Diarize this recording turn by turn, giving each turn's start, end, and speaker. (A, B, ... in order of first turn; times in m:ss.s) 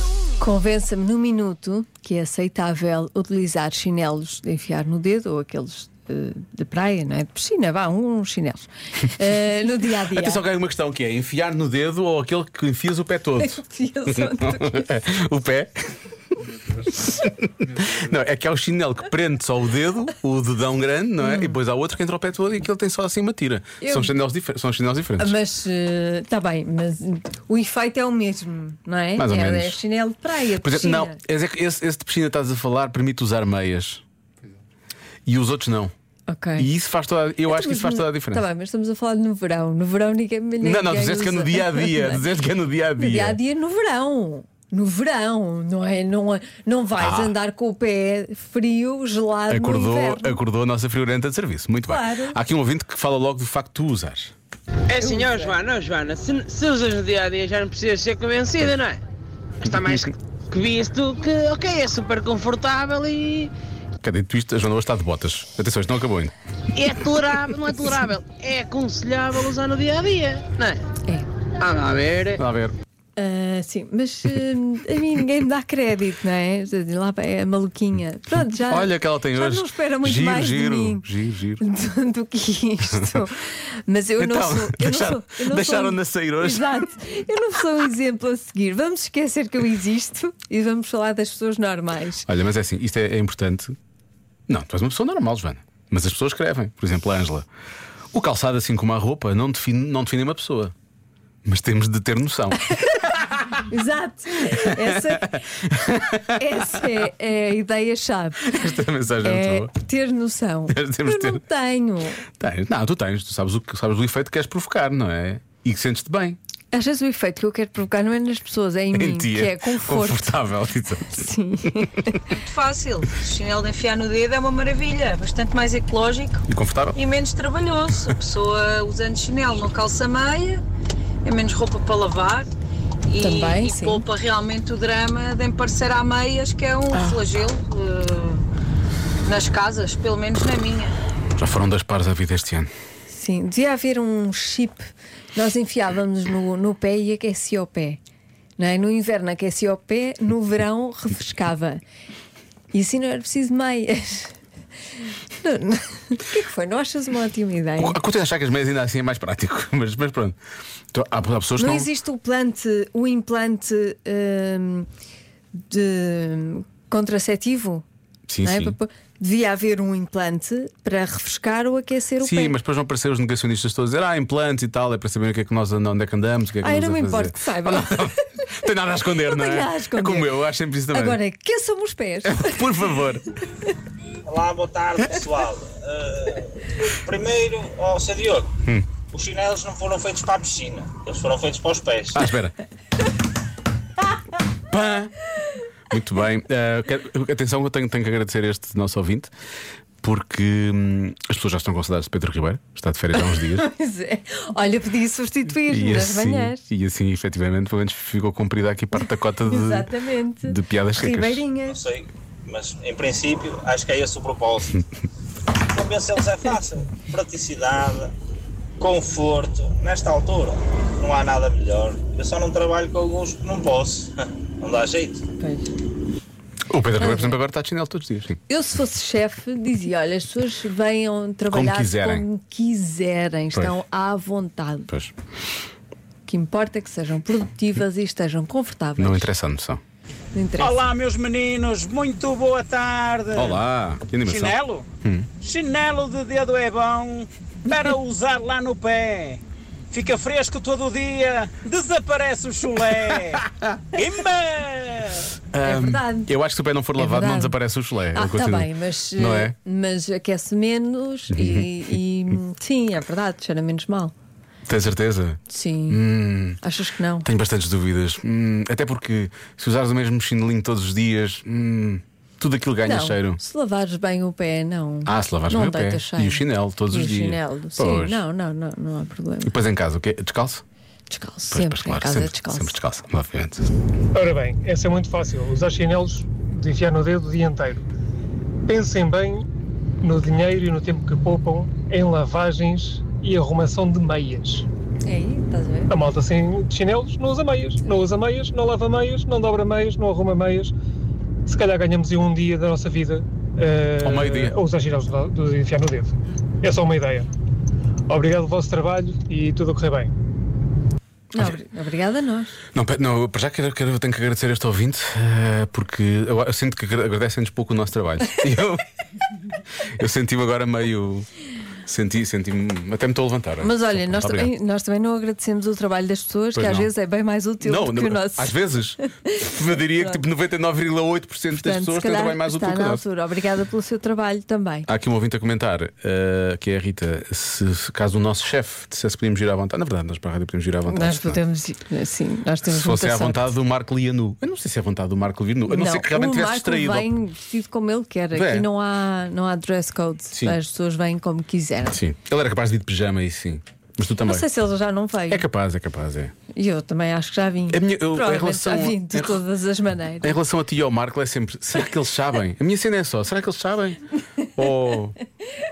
0:00.4-0:10.4 A
0:10.1-0:16.0 B
0:13.4-0:14.9 A
0:16.5-0:25.4 B
0:21.2-0:21.6 A
0:23.8-0:24.1 A
0:25.2-0:31.2 A
0:29.2-0:29.8 B
0:30.6-0:34.0 B
0:35.2-0:35.9 B
0:36.3-0:36.7 A
0:36.6-0:38.4 B
0:37.4-0:42.3 A
0:40.6-0:43.4 B
0:43.0-0:50.4 A
0:47.0-0:47.4 B
0:49.5-0:54.3 B
0:51.8-0:52.4 A
0:54.9-0:59.0 C
0:55.0-0:55.5 A
0:59.6-1:03.5 C
0:59.8-1:00.1 B
1:04.0-1:06.3 B
1:06.8-1:10.8 C
1:11.6-1:12.4 C
1:12.4-1:12.7 B
1:13.2-1:21.1 A
1:18.6-1:21.6 B
1:21.6-1:32.3 A
1:24.2-1:26.9 B
1:32.2-1:33.8 B
1:34.5-1:37.4 B
1:38.1-1:40.7 B
1:41.4-1:43.5 B
1:43.7-1:45.5 A
1:44.5-1:46.9 B
1:46.3-1:52.2 A
1:48.4-1:49.7 B
1:50.7-1:51.4 B
1:52.2-1:56.4 B
1:56.7-2:00.4 A
1:58.9-2:01.3 B
2:01.1-2:02.2 A
2:02.3-2:06.4 D
2:06.5-2:07.0 B
2:06.9-2:10.6 D
2:11.2-2:12.5 D
2:13.1-2:18.4 D
2:13.2-2:14.0 A
2:16.9-2:17.2 A
2:19.2-2:21.0 D
2:21.4-2:22.7 B
2:23.1-2:28.0 A
2:28.6-2:31.8 A
2:32.7-2:34.3 A
2:35.4-2:38.0 A
2:37.8-2:40.4 B
2:40.9-2:41.9 B
2:41.6-2:44.9 A
2:45.6-2:47.8 A
2:48.3-2:48.8 B
2:48.4-2:52.6 A
2:52.2-3:01.2 B
2:56.6-2:58.1 A
2:59.2-3:00.3 A
3:00.9-3:02.7 A
3:02.2-3:03.2 B
3:04.3-3:08.5 E
3:09.1-3:12.3 E
3:12.1-3:12.6 B
3:14.7-3:15.2 B
3:15.9-3:19.3 B
3:20.0-3:23.7 B
3:23.2-3:26.6 A
3:25.7-3:29.9 B
3:29.0-3:31.8 A
3:30.4-3:31.4 B
3:31.7-3:34.8 E
3:35.6-3:38.1 E
3:38.8-3:45.2 E
3:45.4-3:45.7 A
3:46.7-3:48.4 B
3:47.0-3:47.4 A
3:48.5-3:54.9 A
3:51.5-3:52.2 B
3:53.5-3:53.8 B
3:56.3-3:59.3 A
3:59.0-3:59.8 B
4:00.3-4:00.8 A
4:00.6-4:03.6 F
4:03.3-4:05.3 B
4:04.3-4:04.8 F
4:05.4-4:09.4 F
4:09.9-4:15.3 F
4:15.5-4:19.6 B
4:15.6-4:16.3 A
4:17.0-4:17.6 A
4:18.1-4:24.1 A
4:21.3-4:21.7 B
4:24.7-4:26.6 B
4:25.5-4:26.0 A
4:26.6-4:27.3 A
4:27.2-4:33.4 B
4:32.9-4:39.6 A
4:35.1-4:38.2 B
4:39.4-4:40.6 B
4:41.1-4:42.8 A
4:41.5-4:43.7 B
4:44.2-4:47.8 G
4:48.7-4:49.4 G
4:50.0-4:54.7 G
4:55.0-4:55.9 A
4:55.9-5:00.7 G
5:01.5-5:07.3 G
5:04.0-5:04.6 B
5:08.1-5:10.1 G
5:11.3-5:12.6 A
5:12.7-5:18.8 B
5:19.8-5:21.3 B
5:21.8-5:24.5 B
5:23.6-5:30.2 A
5:26.6-5:26.9 B
5:27.6-5:33.0 B
5:31.5-5:34.9 A
5:34.9-5:41.4 B
5:40.9-5:43.4 A
5:42.7-5:47.1 B
5:45.7-5:52.0 A
5:48.3-5:48.7 B
5:50.3-5:50.6 B
5:51.9-5:54.4 B
5:54.2-5:55.4 A
5:55.3-5:56.3 B
5:56.5-6:00.4 A
5:57.7-5:59.4 B
6:00.2-6:05.2 B